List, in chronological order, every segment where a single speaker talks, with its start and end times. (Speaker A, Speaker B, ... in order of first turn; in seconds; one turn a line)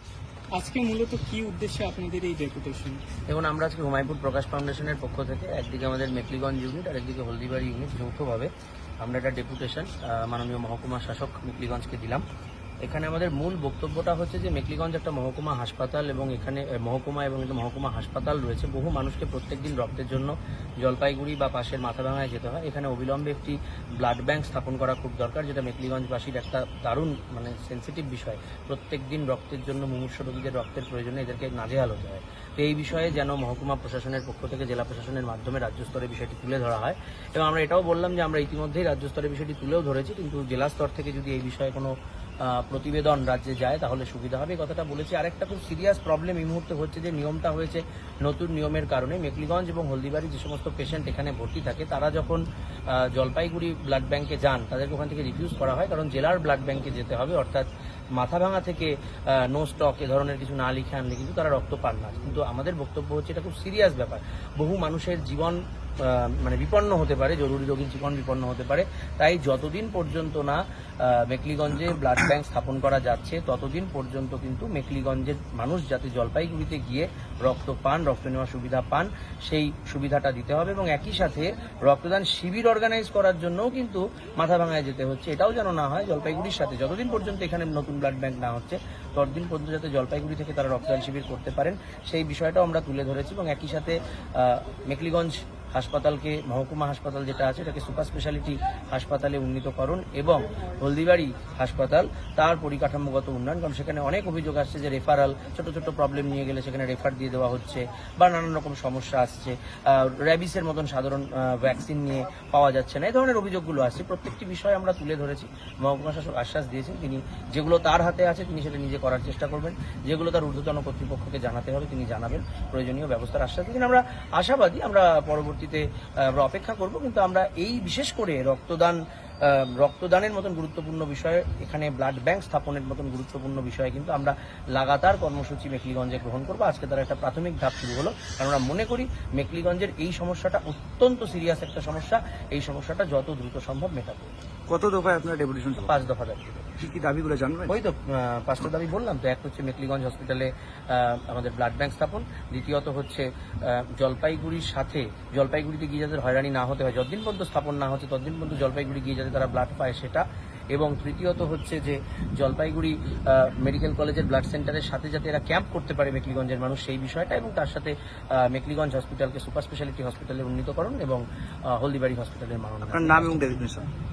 Speaker A: 0.6-3.0
Speaker B: 3.3-8.5
Speaker B: 9.0-12.2
Speaker B: 12.8-41.9
Speaker B: 42.4-144.3
Speaker C: 144.7-145.9
Speaker B: 145.9-146.8
Speaker C: 146.8-147.8
Speaker B: 147.7-171.2
Speaker B: 171.7-173.6
Speaker C: 172.8-173.8